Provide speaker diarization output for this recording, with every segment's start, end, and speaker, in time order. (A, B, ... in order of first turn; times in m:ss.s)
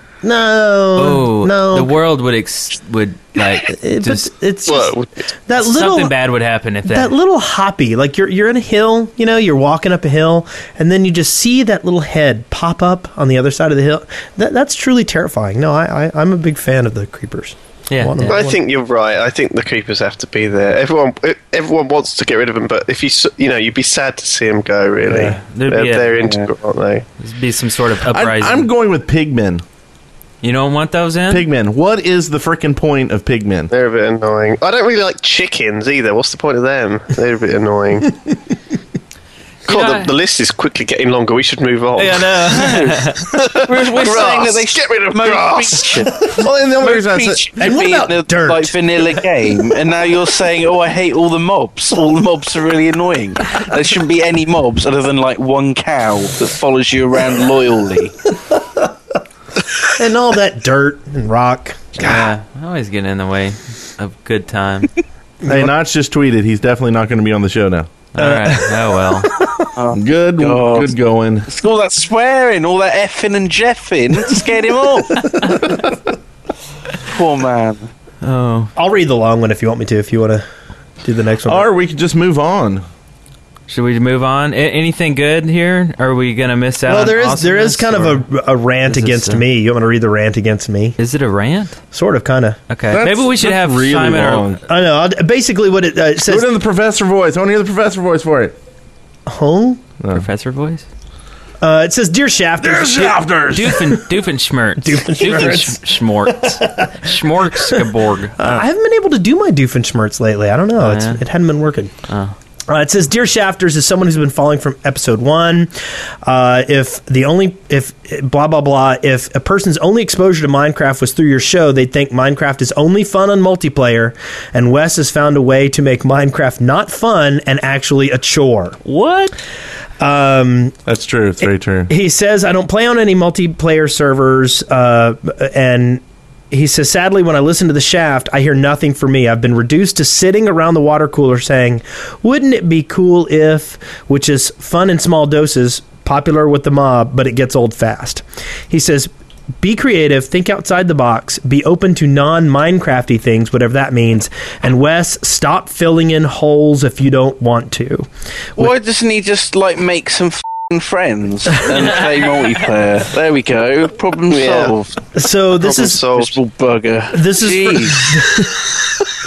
0:00.2-0:01.9 A
0:01.0-0:04.3 B
0:03.7-0:04.9 A
0:04.7-0:05.2 C
0:05.5-0:06.2 A
0:05.6-0:07.1 B
0:06.8-0:18.6 A
0:17.9-0:18.4 B
0:18.2-0:27.1 C
0:25.1-0:25.4 A
0:25.4-0:26.3 B
0:26.2-0:26.5 D
0:27.2-0:28.7 B
0:28.1-0:29.6 E
0:30.4-0:31.4 B
0:31.3-0:33.7 E
0:33.7-0:38.3 C
0:39.7-0:40.1 B
0:39.7-0:46.5 C
0:42.0-0:43.3 B
0:42.4-0:58.2 D
0:46.4-0:47.4 E
0:47.6-0:48.8 A
0:59.9-1:02.1 A
1:02.0-1:04.9 B
1:05.4-1:05.7 A
1:05.5-1:07.9 E
1:08.1-1:09.4 B
1:09.8-1:10.9 D
1:09.9-1:11.5 E
1:11.5-1:15.3 D
1:15.2-1:15.6 B
1:17.1-1:17.9 D
1:18.2-1:18.7 B
1:18.8-1:20.4 A
1:21.0-1:21.7 A
1:21.5-1:22.8 E
1:23.7-1:28.2 B
1:26.9-1:31.0 A
1:28.8-1:29.4 B
1:31.0-1:31.8 B
1:31.9-1:32.6 A
1:32.7-1:34.6 B
1:32.9-1:34.6 E
1:34.7-1:36.5 A
1:36.2-1:38.6 E
1:39.3-1:39.8 A
1:40.0-1:40.3 E
1:40.1-1:40.9 B
1:41.6-1:43.3 A
1:42.6-1:43.9 E
1:43.5-1:48.6 B
1:44.8-1:46.9 A
1:48.4-1:51.9 A
1:50.8-1:51.2 B
1:52.1-1:52.3 B
1:52.7-2:08.8 A
2:08.8-2:09.3 B
2:10.0-2:10.8 A
2:10.9-2:11.9 E
2:11.9-2:38.1 A
2:38.6-2:45.0 D
2:44.3-2:44.8 C
2:45.2-2:46.0 A
2:45.6-2:46.4 C
2:46.2-2:48.2 D
2:47.1-2:48.7 A